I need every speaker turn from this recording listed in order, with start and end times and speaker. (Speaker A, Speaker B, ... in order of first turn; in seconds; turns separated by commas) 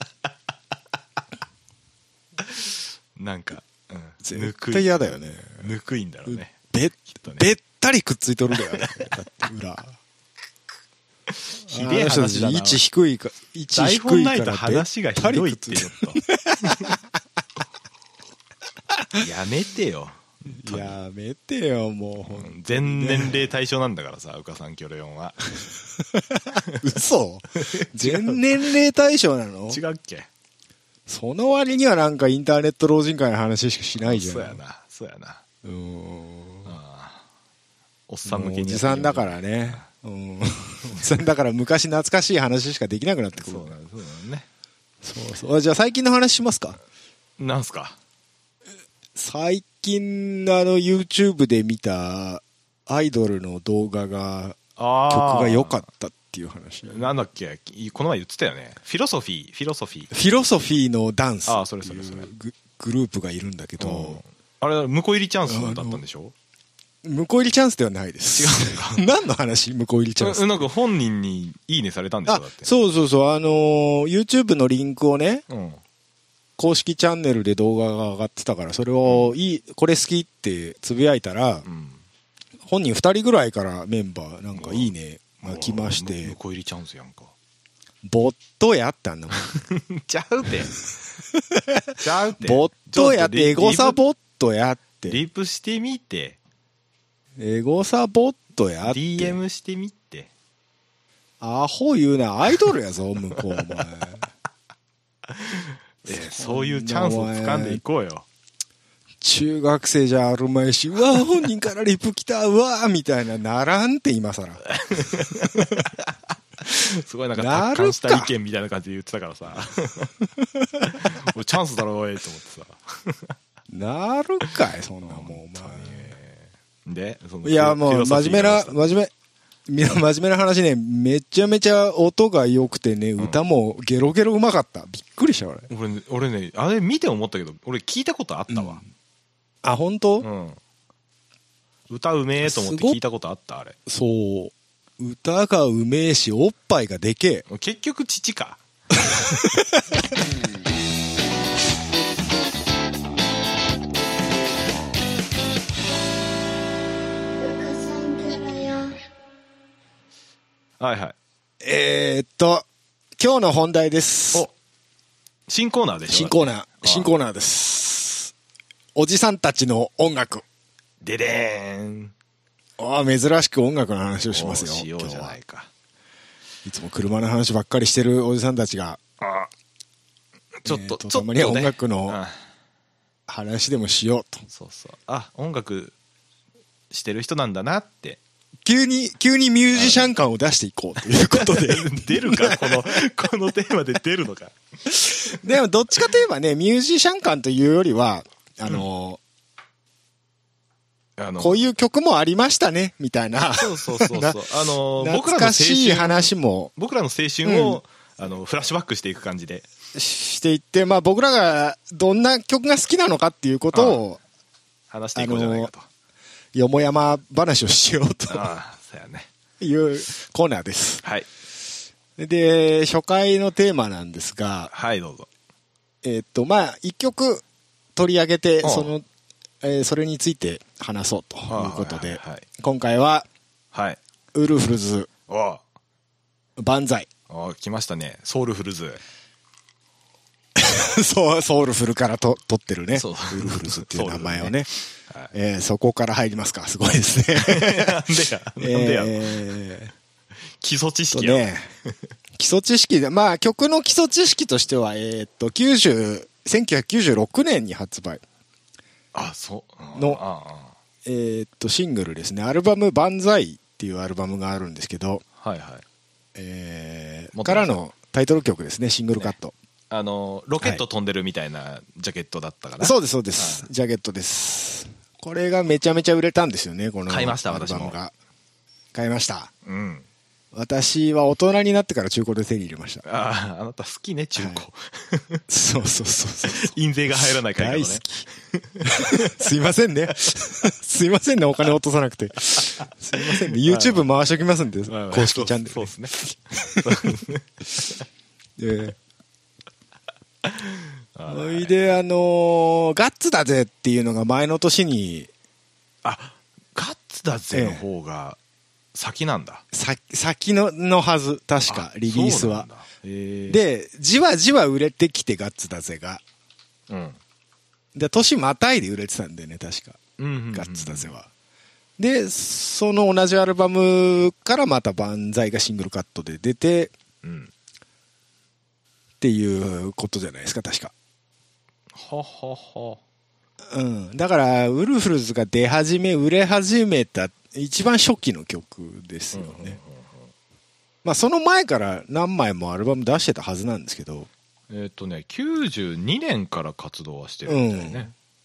Speaker A: 2.4-6.5, Speaker B: 4.2-5.7, Speaker B: 6.3-10.0, Speaker A: 7.2-7.5, Speaker A: 8.5-9.1, Speaker A: 11.3-12.8, Speaker B: 11.7-17.0, Speaker A: 13.7-16.9, Speaker A: 19.2-20.9, Speaker B: 20.4-23.5, Speaker A: 22.2-25.4, Speaker B: 26.1-29.8, Speaker A: 27.6-28.7, Speaker A: 29.7-30.3, Speaker B: 31.1-34.6, Speaker A: 34.0-35.4, Speaker B: 35.6-36.7, Speaker A: 36.6-37.2, Speaker A: 38.1-39.8, Speaker B: 38.2-43.7, Speaker A: 40.9-41.2, Speaker A: 43.3-44.5, Speaker B: 45.0-46.8, Speaker A: 47.4-48.0, Speaker B: 49.1-54.6, Speaker A: 54.8-55.8, Speaker B: 55.1-57.1, Speaker A: 56.9-60.1, Speaker B: 60.1-64.2, Speaker A: 61.5-62.3, Speaker A: 63.8-66.3, Speaker B: 65.5-66.0, Speaker B: 67.0-70.6, Speaker A: 68.3-69.1, Speaker A: 70.2-72.7, Speaker B: 72.3-75.4, Speaker A: 75.5-75.8, Speaker B: 76.6-81.7, Speaker A: 79.0-79.3, Speaker A: 81.6-82.0, Speaker B: 82.7-86.4, Speaker A: 84.5-87.3, Speaker B: 88.0-89.5, Speaker A: 89.5-90.7, Speaker B: 91.3-95.2, Speaker A: 92.0-94.0, Speaker A: 95.1-96.4, Speaker B: 97.4-99.4, Speaker A: 98.8-100.3, Speaker B: 101.4-104.3, Speaker A: 103.3-103.8, Speaker A: 105.3-108.2, Speaker B: 106.0-107.8, Speaker B: 109.2-115.9, Speaker A: 114.7-120.1, Speaker B: 117.3-118.3, Speaker B: 120.4-121.0, Speaker A: 120.8-123.3, Speaker B: 123.7-126.1, Speaker A: 125.0-128.8, Speaker B: 127.4-129.1, Speaker B: 129.7-135.7, Speaker A: 135.7-138.8, Speaker B: 138.5-138.8, Speaker B: 139.6-140.3, Speaker A: 140.2-140.6, Speaker A: 141.9-143.8, Speaker B: 142.4-143.0, Speaker B: 143.9-147.4, Speaker A: 147.5-148.6, Speaker B: 149.3-149.8, Speaker A: 160.8-161.1, Speaker B: 161.6-162.6, Speaker B: 163.2-164.5, Speaker A: 165.5-167.1, Speaker B: 166.1-168.3, Speaker B: 168.9-170.4, Speaker A: 171.0-172.1, Speaker B: 172.8-175.4, Speaker A: 174.3-175.7, Speaker B: 176.6-179.0, Speaker A: 179.2-179.5, Speaker A: 180.6-182.4, Speaker B: 180.7-182.2, Speaker B: 183.3-184.4, Speaker A: 184.5-185.9, Speaker A: 186.9-188.2, Speaker B: 188.6-192.8, Speaker A: 189.7-190.1, Speaker A: 191.1-194.6, Speaker B: 194.9-199.2, Speaker A: 201.2-201.6, Speaker B: 201.4-204.4, Speaker A: 203.6-209.7, Speaker B: 205.0-206.7, Speaker B: 207.4-207.8, Speaker B: 209.9-214.2, Speaker A: 213.7-214.0, Speaker A: 214.9-215.8, Speaker B: 215.2-215.7, Speaker B: 216.5-218.5, Speaker A: 218.3-219.3, Speaker B: 219.6-221.0, Speaker B: 222.2-224.7, Speaker A: 224.7-225.3, Speaker B: 226.0-227.4, Speaker B: 227.9-229.0, Speaker A: 228.6-228.9, Speaker B: 229.6-233.3, Speaker A: 231.5-232.4, Speaker A: 233.7-234.0, Speaker B: 234.3-235.1, Speaker A: 235.3-235.6, Speaker B: 236.6-237.1, Speaker A: 237.3-239.0, Speaker B: 240.6-244.7, Speaker A: 242.9-245.3, Speaker B: 245.3-248.0, Speaker A: 247.3-249.4, Speaker B: 248.6-249.9, Speaker A: 250.6-251.9, Speaker B: 251.1-251.7, Speaker B: 252.4-258.2, Speaker A: 259.1-260.7, Speaker B: 259.9-260.2, Speaker B: 261.0-265.2, Speaker A: 265.4-265.8, Speaker B: 266.3-269.5, Speaker A: 267.3-267.7, Speaker A: 269.9-273.7, Speaker B: 272.8-278.1, Speaker A: 277.1-277.9, Speaker B: 278.9-279.5, Speaker A: 279.6-280.1, Speaker B: 280.5-283.0, Speaker A: 283.0-285.4, Speaker B: 284.4-284.6, Speaker B: 285.5-288.2, Speaker A: 286.5-289.4, Speaker B: 288.8-296.9, Speaker A: 293.2-294.1, Speaker A: 294.9-296.1, Speaker A: 296.7-297.9, Speaker B: 298.6-299.0, Speaker A: 300.4-301.7, Speaker B: 301.3-305.3, Speaker A: 306.0-308.4, Speaker B: 307.5-307.8, Speaker A: 308.9-309.6, Speaker B: 309.7-312.7, Speaker A: 311.7-313.6, Speaker B: 313.5-316.2, Speaker A: 316.9-317.2, Speaker B: 317.9-320.0, Speaker A: 320.2-321.1, Speaker B: 320.5-321.3, Speaker B: 322.0-326.9, Speaker A: 327.2-327.5, Speaker B: 329.2-330.9, Speaker A: 331.9-333.0, Speaker B: 333.7-339.8, Speaker A: 339.3-340.3, Speaker B: 341.0-344.3, Speaker A: 344.7-348.1, Speaker B: 347.5-348.1